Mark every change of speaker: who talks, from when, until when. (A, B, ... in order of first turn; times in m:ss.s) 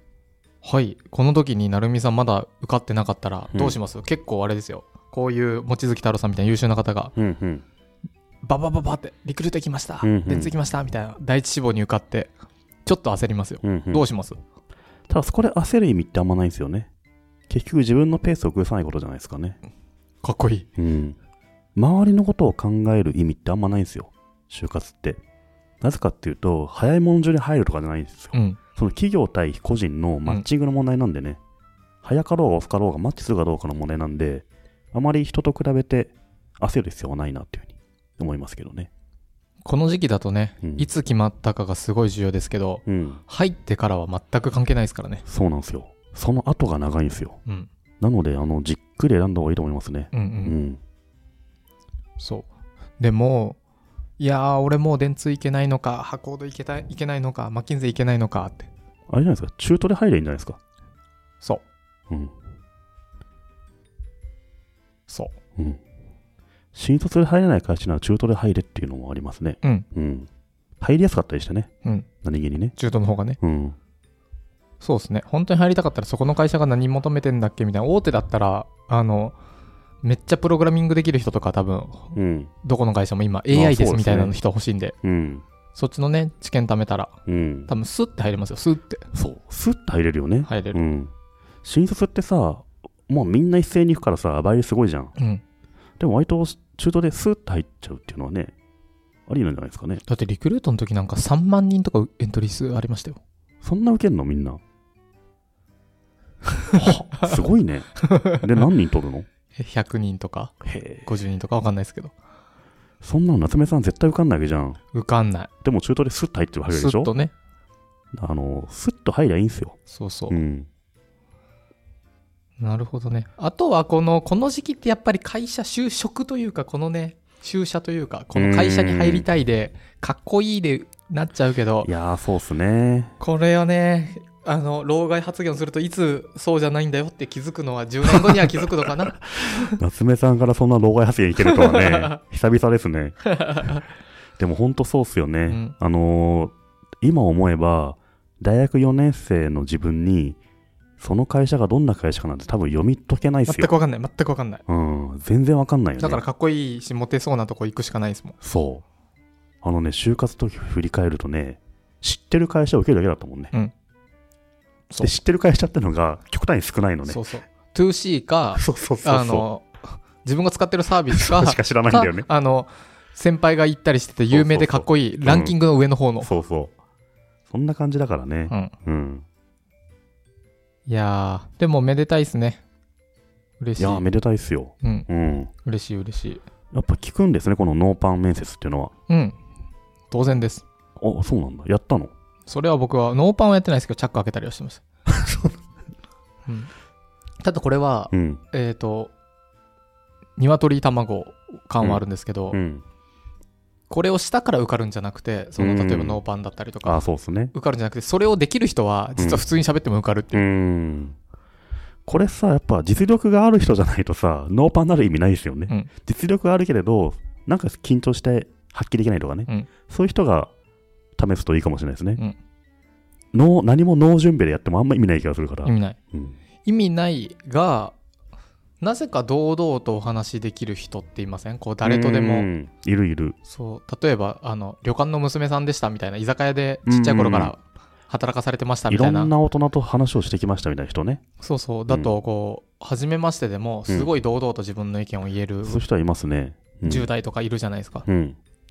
0:00.6-0:07.1 A
0:07.2-0:07.6 B
0:08.4-0:12.3 A
0:10.0-0:10.5 B
0:12.9-0:14.4 A
0:13.6-0:14.1 B
0:15.1-0:16.9 B
0:17.5-0:19.6 B
0:20.2-0:20.7 A
0:20.8-0:21.2 B
0:21.8-0:25.2 B
0:25.8-0:31.4 B
0:28.3-0:28.6 A
0:32.0-0:38.9 B
0:39.6-0:45.2 A
0:40.6-0:40.9 B
0:42.9-0:43.2 B
0:45.2-0:47.4 B
0:48.0-0:50.8 B
0:50.1-0:50.6 A
0:52.2-0:52.5 A
0:53.0-0:53.6 A
0:54.2-0:58.7 A
0:59.1-1:00.6 B
1:05.1-1:05.4 A
1:06.7-1:10.3 B
1:10.8-1:11.7 B
1:12.2-1:12.8 B
1:12.8-1:13.4 A
1:13.4-1:13.8 B
1:14.8-1:19.4 A
1:20.0-1:25.0 A
1:22.2-1:22.5 B
1:23.5-1:24.4 B
1:25.0-1:25.4 B
1:25.8-1:27.2 A
1:27.3-1:27.7 B
1:27.7-1:29.1 A
1:29.1-1:31.1 B
1:30.5-1:30.8 A
1:31.6-1:35.1 B
1:35.2-1:35.4 A
1:36.0-1:38.5 B
1:39.3-1:40.0 B
1:40.1-1:43.2 A
1:43.6-1:44.6 B
1:46.8-1:49.3 B
1:49.6-1:52.1 A
1:50.6-1:51.1 B
1:53.0-1:54.8 B
1:54.9-1:55.5 A
1:55.6-1:57.1 B
1:56.7-1:57.3 A
1:58.2-1:59.8 B
1:59.9-2:00.4 A
2:00.3-2:00.7 B
2:02.6-2:11.9 A
2:08.4-2:09.3 B
2:11.8-2:13.2 B
2:13.2-2:19.7 A
2:19.3-2:23.2 B
2:21.4-2:22.1 A
2:23.4-2:23.8 A
2:24.4-2:30.4 B
2:25.5-2:25.7 A
2:31.0-2:33.7 B
2:33.5-2:34.6 A
2:34.7-2:36.2 B
2:36.0-2:38.4 A
2:38.4-2:38.8 B
2:39.6-2:43.5 B
2:45.0-2:47.2 B
2:47.1-2:56.3 A
2:48.6-2:49.5 B
2:51.1-2:52.3 B
2:54.3-2:55.6 B
2:56.2-2:56.7 B
2:57.5-2:59.2 B
3:00.9-3:02.6 A
3:03.6-3:04.0 A
3:03.8-3:05.5 B
3:04.8-3:05.1 A
3:05.6-3:06.4 A
3:06.7-3:08.9 B
3:09.1-3:09.4 A
3:10.1-3:10.6 A
3:11.0-3:12.1 B
3:12.5-3:14.8 A
3:15.1-3:15.5 B
3:16.5-3:16.7 A
3:17.4-3:19.1 A
3:18.1-3:18.4 B
3:20.4-3:22.6 A
3:21.8-3:22.8 B
3:23.9-3:27.0 A
3:25.6-3:26.2 B
3:26.8-3:27.5 B
3:27.5-3:30.4 A
3:29.2-3:29.4 B
3:30.3-3:31.2 B
3:32.1-3:40.5 B
3:41.2-3:42.2 B
3:43.3-3:46.4 B
3:45.6-3:46.0 A
3:46.6-3:48.0 A
3:48.8-3:52.5 A
3:51.8-3:53.4 B
3:53.5-3:59.3 A
3:56.9-3:57.5 B
3:58.9-4:01.2 B
4:01.4-4:05.8 A
4:01.9-4:02.2 B
4:03.9-4:04.1 B
4:05.6-4:07.1 B
4:06.8-4:08.1 A
4:08.1-4:08.4 B